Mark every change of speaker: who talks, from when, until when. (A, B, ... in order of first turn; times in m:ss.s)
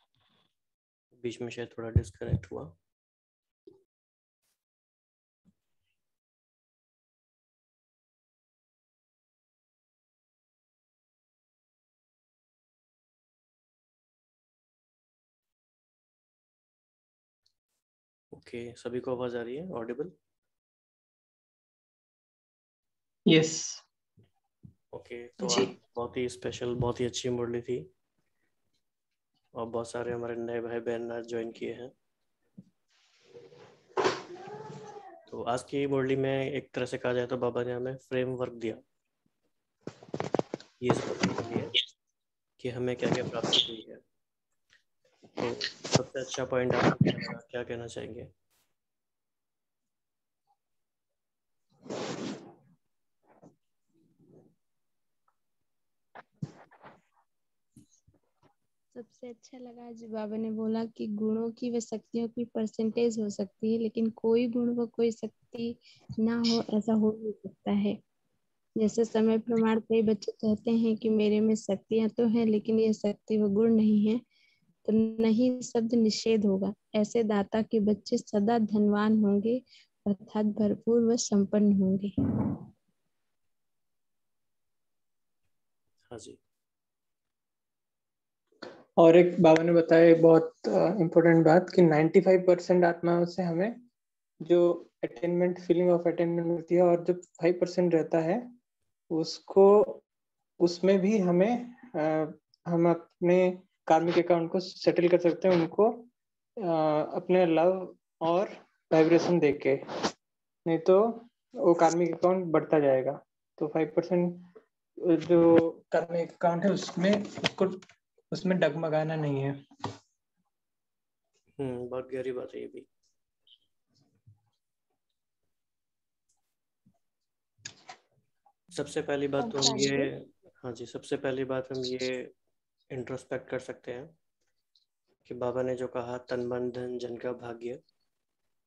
0:01.2-0:02.7 A
0:18.3-0:20.1 A
0:23.3-0:23.8 B
0:24.9-0:27.9 A
0:29.6-0:31.9 A
0:35.3-0:38.8 A
0:40.8-0:41.8 A
0:42.6-0:44.0 A
0:45.4-0:48.3 A
0:59.0-1:08.0 C
1:08.8-1:14.2 C
1:14.9-1:22.1 C
1:26.1-1:26.4 A
1:29.0-1:33.8 B
1:34.4-1:38.5 B
1:39.1-1:40.0 B
1:40.6-1:46.1 B
1:46.6-1:49.8 B
1:50.6-1:54.4 B
1:55.0-1:59.6 B
2:01.6-2:02.9 A
2:08.7-2:12.3 A
2:12.9-2:14.1 A
2:15.3-2:17.8 A